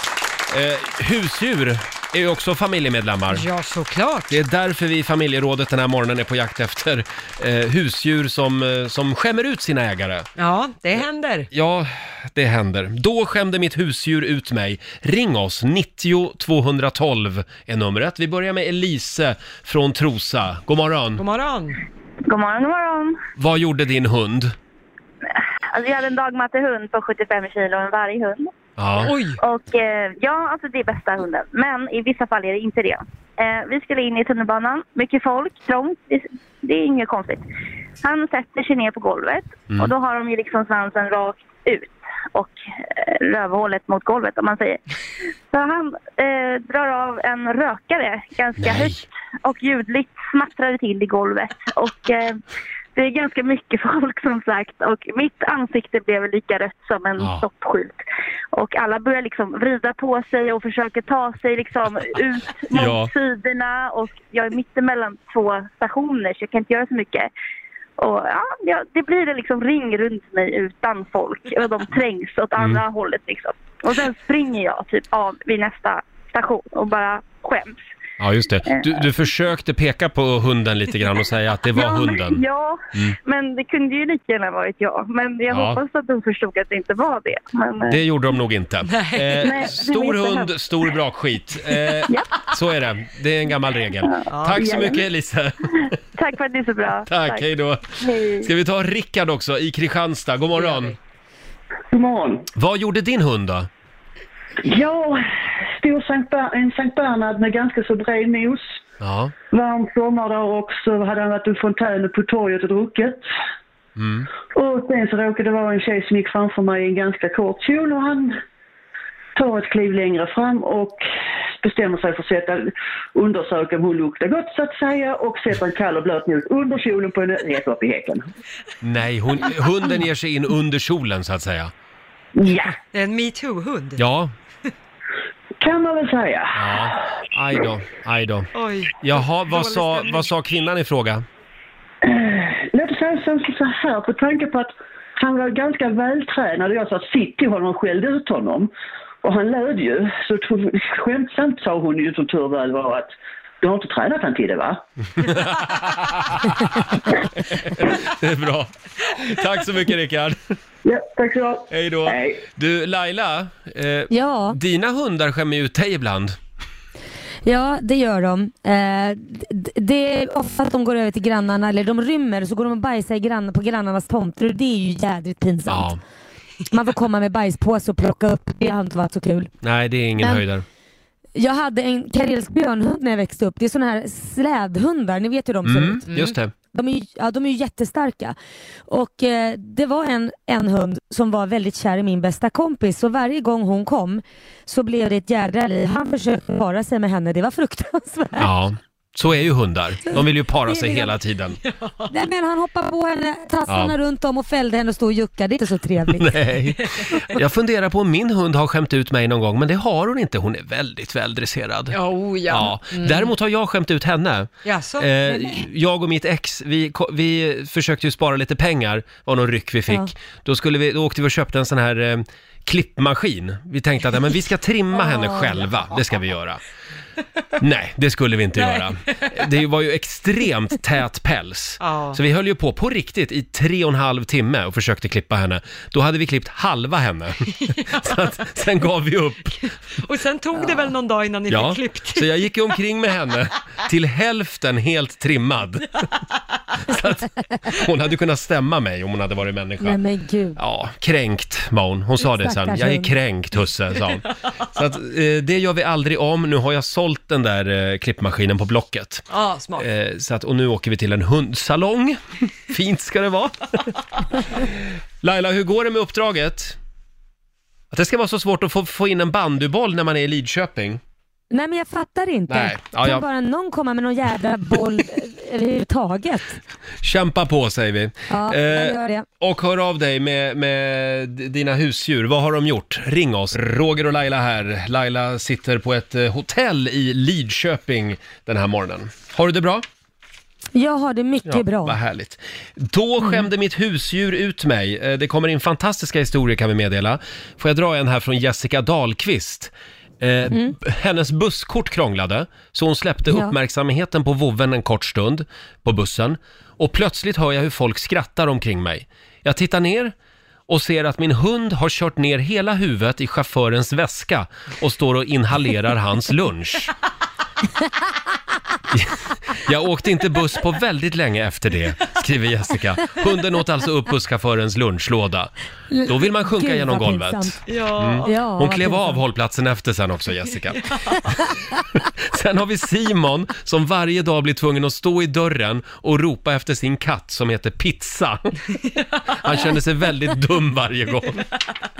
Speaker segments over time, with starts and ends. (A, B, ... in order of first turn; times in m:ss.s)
0:00.5-0:03.4 A
0:03.3-0:04.4 B
0:04.3-0:10.3 A
0:10.4-0:11.5 B
0:11.5-0:21.2 A
0:21.2-0:21.8 B
0:22.2-0:23.2 C
0:23.4-0:24.6 A
0:25.7-0:28.5 C
0:28.8-0:29.1 A
0:29.0-0:29.4 B
0:29.4-0:37.4 C
0:38.0-0:44.8 C
0:45.5-0:52.4 C
0:48.6-0:49.0 A
0:53.0-0:58.0 C
0:57.2-0:57.4 A
0:58.5-1:07.3 C
1:02.7-1:03.1 A
1:08.0-1:17.8 C
1:12.6-1:12.8 A
1:18.2-1:22.4 A
1:18.6-1:19.1 C
1:21.7-1:28.0 C
1:25.5-1:25.8 A
1:27.9-1:35.9 A
1:28.9-1:29.6 B
1:29.4-1:30.5 C
1:34.1-1:34.9 C
1:34.3-1:34.7 B
1:36.2-1:37.5 C
1:37.1-1:40.9 A
1:38.0-1:38.5 C
1:40.6-1:40.9 B
1:41.9-1:42.5 D
1:42.6-1:43.7 A
1:44.6-1:48.8 D
1:49.0-1:49.3 A
1:49.5-1:53.2 D
1:54.0-1:54.3 A
1:54.5-1:58.4 D
1:59.4-2:01.0 D
2:01.6-2:08.3 D
2:08.8-2:11.7 A
2:12.4-2:12.7 D
2:12.9-2:14.0 B
2:14.0-2:14.3 A
2:15.6-2:16.9 D
2:16.5-2:21.2 A
2:18.5-2:20.2 B
2:22.0-2:28.7 D
2:29.2-2:34.8 D
2:35.2-2:37.0 A
2:37.5-2:40.4 A
2:40.8-2:42.4 D
2:41.7-2:46.4 A
2:44.1-2:44.6 E
2:47.4-2:55.9 E
2:55.7-2:56.0 A
2:56.7-2:59.5 E
2:59.6-3:00.6 A
3:01.4-3:06.1 E
3:05.6-3:06.5 A
3:06.1-3:06.3 B
3:06.7-3:08.4 E
3:08.9-3:18.5 E
3:18.4-3:21.6 A
3:20.7-3:21.1 E
3:21.6-3:22.1 B
3:22.1-3:26.4 E
3:23.7-3:23.9 A
3:26.1-3:46.6 A
3:31.9-3:33.3 B
3:34.6-3:35.1 B
3:45.0-3:45.6 E
3:47.6-3:59.7 A
3:48.6-3:49.2 B
3:51.8-3:52.2 B
3:57.6-3:58.0 B
3:59.6-4:02.4 B
4:01.5-4:05.9 A
4:06.9-4:10.0 A
4:09.8-4:10.6 E
4:10.6-4:19.2 A
4:12.2-4:13.1 E
4:19.3-4:19.8 B
4:19.8-4:23.9 A
4:25.2-4:26.8 A
4:27.9-4:31.0 A
4:31.5-4:36.6 E
4:32.5-4:33.2 A
4:37.0-4:49.8 A
4:38.3-4:39.2 E
4:50.8-4:52.0 E
4:51.4-5:10.1 A
5:00.5-5:00.8 E
5:10.7-5:16.9 A
5:18.9-5:25.5 A
5:25.9-5:27.6 E
5:26.1-5:31.0 A
5:27.7-5:28.4 B
5:28.2-5:29.2 E
5:32.2-5:38.6 A
5:39.2-5:41.4 A